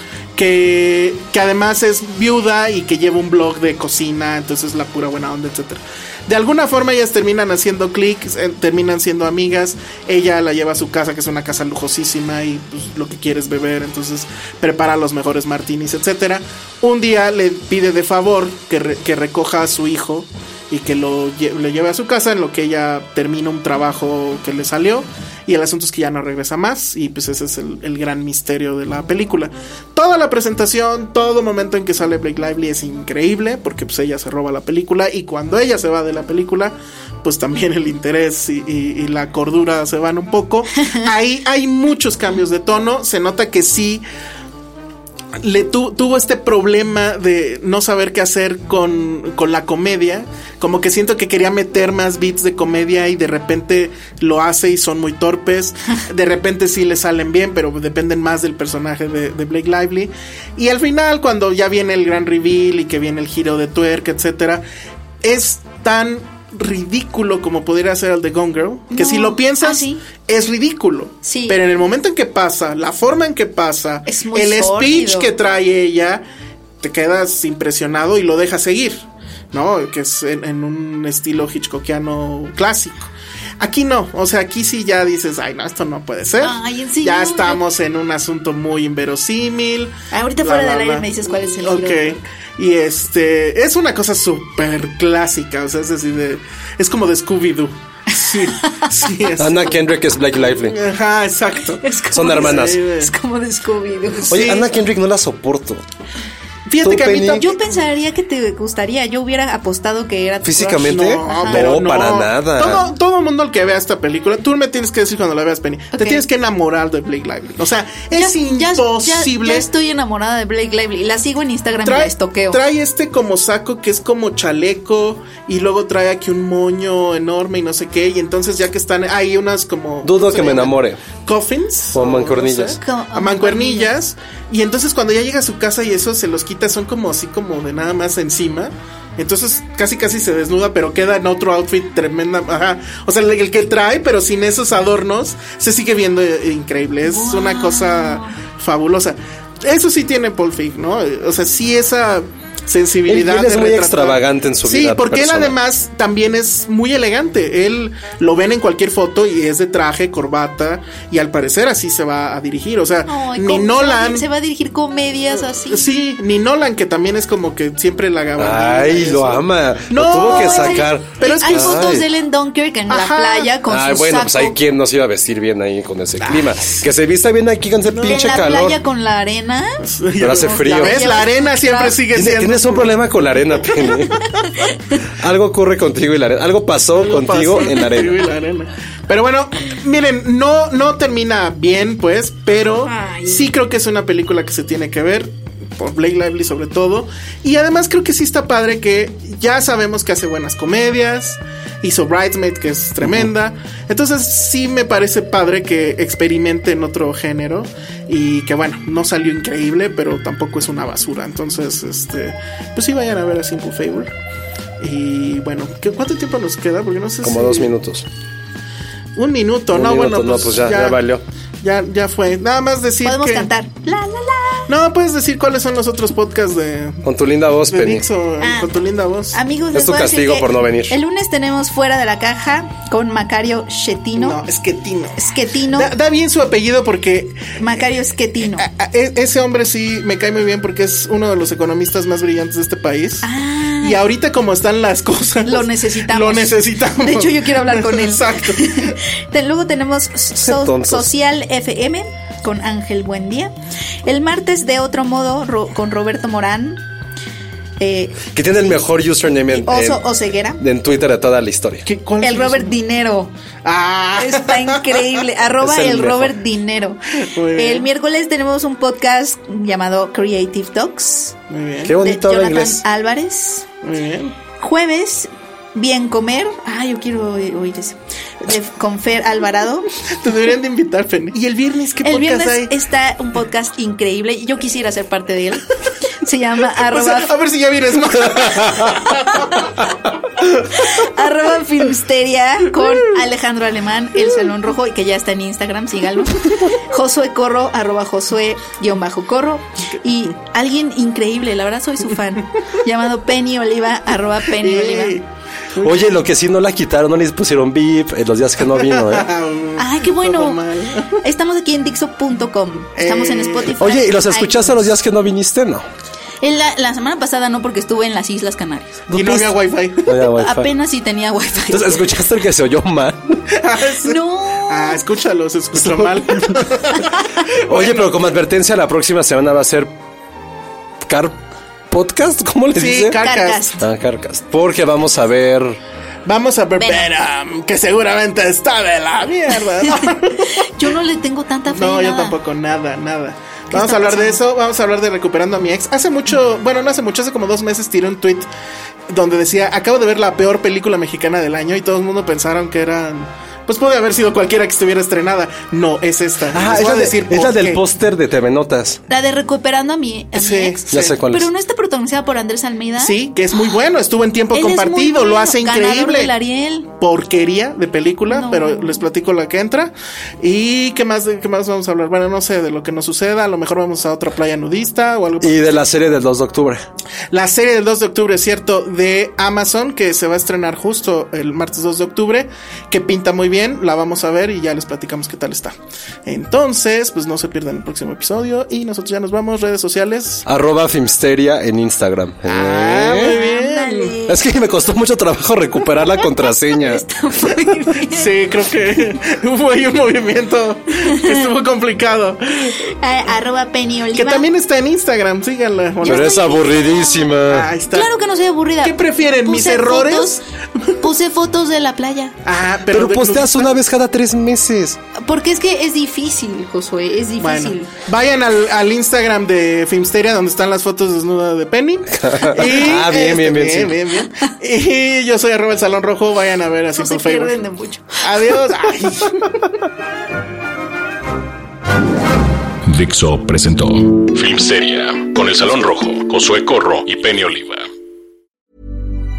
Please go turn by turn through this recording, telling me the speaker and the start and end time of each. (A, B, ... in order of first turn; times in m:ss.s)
0:00.3-0:44.0 A
0:45.4-1:04.6 A
1:05.2-1:16.2 A
1:08.9-1:10.0 B
1:11.2-1:11.6 B
1:14.1-1:15.3 B
1:16.8-1:39.7 A
1:26.4-1:27.6 B
1:30.1-1:32.2 B
1:38.2-1:39.1 B
1:39.4-1:40.8 C
1:40.6-1:43.1 A
1:41.8-1:44.5 B
1:42.1-1:42.8 C
1:44.3-1:45.8 C
1:44.3-1:44.6 A
1:46.7-1:47.6 A
1:46.8-1:47.4 C
1:47.4-1:51.8 B
1:50.4-1:52.9 C
1:50.8-1:59.7 A
1:55.9-1:56.2 B
1:58.1-2:02.6 B
2:01.8-2:44.3 A
2:10.0-2:11.0 C
2:11.9-2:12.8 C
2:12.8-2:14.0 B
2:27.0-2:28.4 B
2:33.0-2:35.6 C
2:43.0-2:46.0 B
2:45.3-2:52.0 A
2:48.4-2:52.0 C
2:50.2-2:54.6 B
2:52.9-2:53.5 A
2:53.7-2:58.8 C
2:56.2-2:56.8 A
2:57.9-2:58.6 A
2:58.0-3:02.0 B
2:59.8-3:02.9 A
3:00.2-3:01.0 C
3:02.1-3:04.2 C
3:03.8-3:04.1 A
3:05.2-3:08.2 C
3:06.9-3:34.1 A
3:12.8-3:13.5 B
3:23.0-3:23.3 C
3:34.8-3:37.7 A
3:37.2-3:38.1 C
3:39.2-3:41.0 A
3:39.7-3:41.2 C
3:41.6-3:43.5 A
3:43.0-3:44.7 B
3:44.7-3:47.0 A
3:47.0-3:48.0 C
3:47.7-3:49.4 A
3:48.4-3:48.7 B
3:49.3-3:54.4 B
3:49.7-3:51.0 C
3:54.2-3:55.2 A
3:55.2-3:55.9 B
3:55.8-3:57.6 A
3:57.6-3:58.7 B
3:58.6-4:03.3 A
4:03.2-4:04.0 B
4:03.8-4:09.0 A
4:05.4-4:13.5 B
4:10.4-4:11.1 C
4:14.0-4:16.8 B
4:17.8-4:18.8 B
4:18.3-4:20.0 C
4:19.5-4:20.6 B
4:20.6-4:21.9 C
4:21.8-4:22.7 A
4:22.2-4:23.3 B
4:23.6-4:25.0 A
4:24.2-4:31.4 B
4:25.6-4:26.3 C
4:27.2-4:27.8 A
4:31.5-4:31.9 A
4:31.8-4:32.8 C
4:32.0-4:33.7 B
4:33.8-4:34.4 A
4:34.6-4:39.9 B
4:40.0-4:42.7 A
4:42.0-4:45.7 B
4:46.2-4:47.3 B
4:46.9-4:49.6 A
4:49.1-4:49.6 B
4:50.7-5:05.2 B
5:04.6-5:06.2 A
5:05.8-5:09.3 C
5:08.7-5:11.2 A
5:09.8-5:10.6 B
5:11.2-5:14.9 B
5:13.0-5:13.7 A
5:13.8-5:15.9 C
5:16.4-5:19.1 B
5:19.1-5:20.7 C
5:19.1-5:20.1 A
5:20.3-5:22.0 B
5:21.7-5:23.5 C
5:23.6-5:28.3 A
5:24.0-5:25.0 B
5:25.7-5:26.7 C
5:27.6-5:29.9 C
5:31.0-5:31.4 C
5:31.9-5:33.2 C
5:32.8-5:33.7 A
5:33.2-5:33.8 B
5:33.8-5:35.8 C
5:36.2-5:40.7 A
5:36.8-5:37.1 B
5:40.0-5:42.4 B
5:41.7-5:48.5 A
5:43.7-5:44.4 B
5:49.1-5:57.8 A
5:56.5-5:59.0 C
5:59.1-6:03.2 B
6:00.3-6:01.2 A
6:00.9-6:01.5 C
6:03.0-6:06.3 A
6:04.5-6:06.9 B
6:06.9-6:15.8 A
6:08.3-6:09.0 B
6:15.4-6:16.8 C
6:17.3-6:25.7 A
6:26.2-6:30.4 A
6:30.4-6:33.4 C
6:32.5-6:34.2 A
6:33.2-6:34.4 B
6:34.3-6:37.0 C
6:36.0-6:38.4 B
6:38.1-6:42.8 A
6:41.0-6:41.5 B
6:42.7-6:44.5 B
6:44.2-6:46.5 A
6:46.0-6:50.4 B
6:46.0-6:47.7 C
6:47.5-6:48.1 A
6:48.8-6:50.9 A
6:51.0-6:52.4 B
6:52.4-6:53.7 A
6:52.8-6:55.0 C
6:55.2-6:57.9 B
6:57.4-7:07.5 A
7:02.1-7:04.0 C
7:06.9-7:08.6 B
7:08.2-7:09.6 A
7:12.8-7:17.9 D